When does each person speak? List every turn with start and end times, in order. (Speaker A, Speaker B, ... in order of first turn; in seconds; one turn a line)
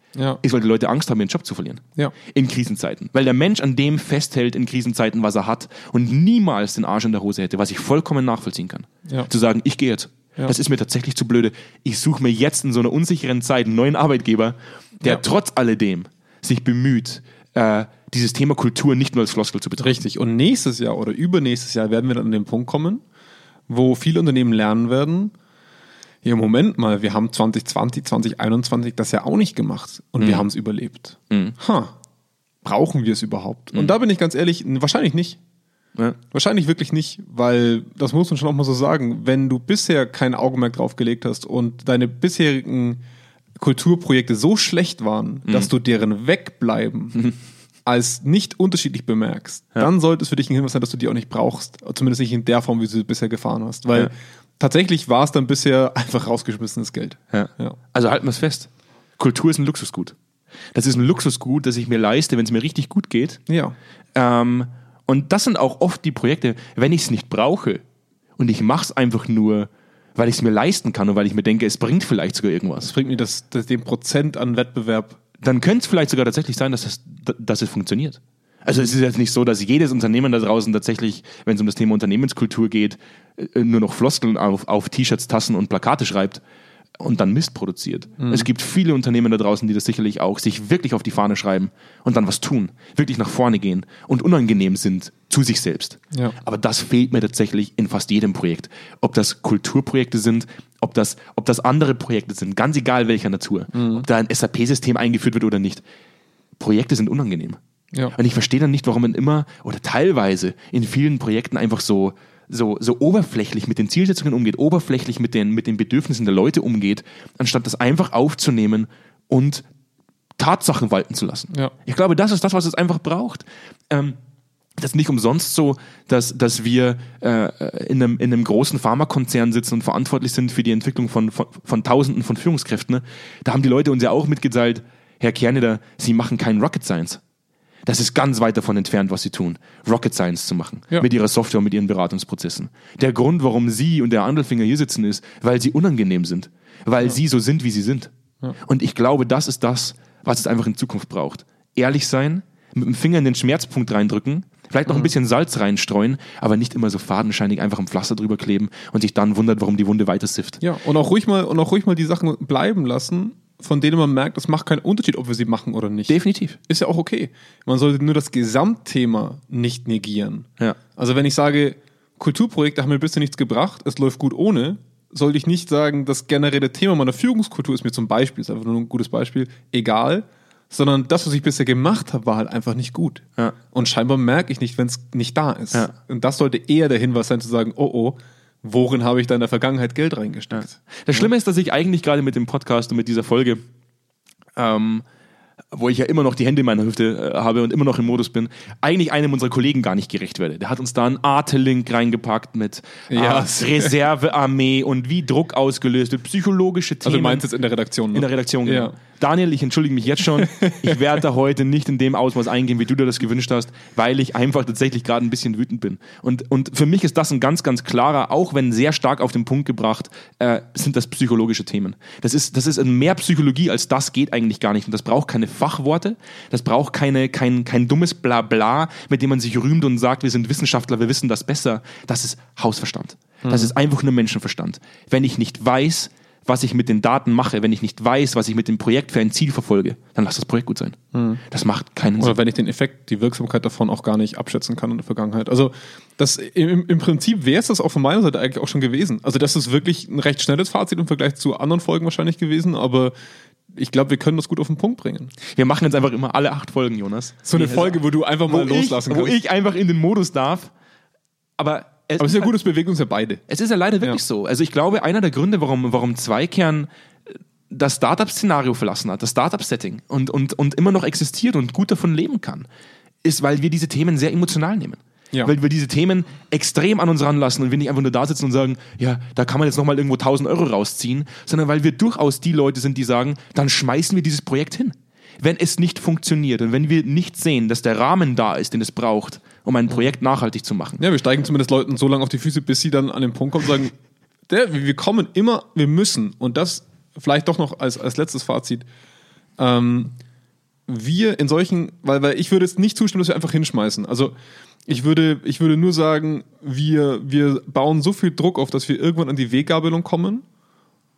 Speaker A: 0.1-0.4
Speaker B: 0.4-20.0
Speaker A: 19.8-23.0
Speaker A: 23.7-25.3
Speaker A: 26.2-31.9
Speaker A: 32.6-35.4
Speaker A: 36.3-43.0
Speaker A: 43.6-47.2
Speaker A: 47.9-57.8
Speaker B: 57.3-60.1
Speaker B: 60.7-63.4
Speaker A: 63.5-63.7
Speaker B: 64.1-67.8
Speaker B: 68.4-72.9
Speaker A: 72.8-75.2
Speaker B: 75.4-86.4
Speaker B: 87.0-105.8
Speaker A: 88.2-88.5
Speaker A: 103.7-104.0
Speaker B: 106.6-107.6
Speaker B: 108.1-119.6
Speaker B: 120.4-124.2
Speaker B: 124.8-137.2
Speaker B: 137.9-148.1
Speaker B: 148.7-160.6
Speaker A: 160.6-166.1
Speaker B: 166.1-166.6
Speaker A: 166.7-191.3
Speaker B: 190.5-193.6
Speaker B: 194.6-195.0
Speaker B: 195.7-207.4
Speaker A: 203.1-203.9
Speaker A: 207.0-208.9
Speaker B: 208.1-241.0
Speaker A: 210.3-211.0
Speaker A: 233.4-233.7
Speaker A: 241.1-241.4
Speaker B: 241.5-242.4
Speaker A: 242.2-253.1
Speaker A: 253.7-255.3
Speaker B: 255.5-260.7
Speaker A: 257.4-259.4
Speaker B: 261.6-262.5
Speaker A: 262.2-263.4
Speaker B: 263.5-266.9
Speaker B: 267.7-272.6
Speaker B: 273.2-291.0
Speaker A: 291.0-293.9
Speaker A: 294.5-298.9
Speaker A: 299.6-300.1
Speaker A: 300.9-304.3
Speaker A: 304.9-310.4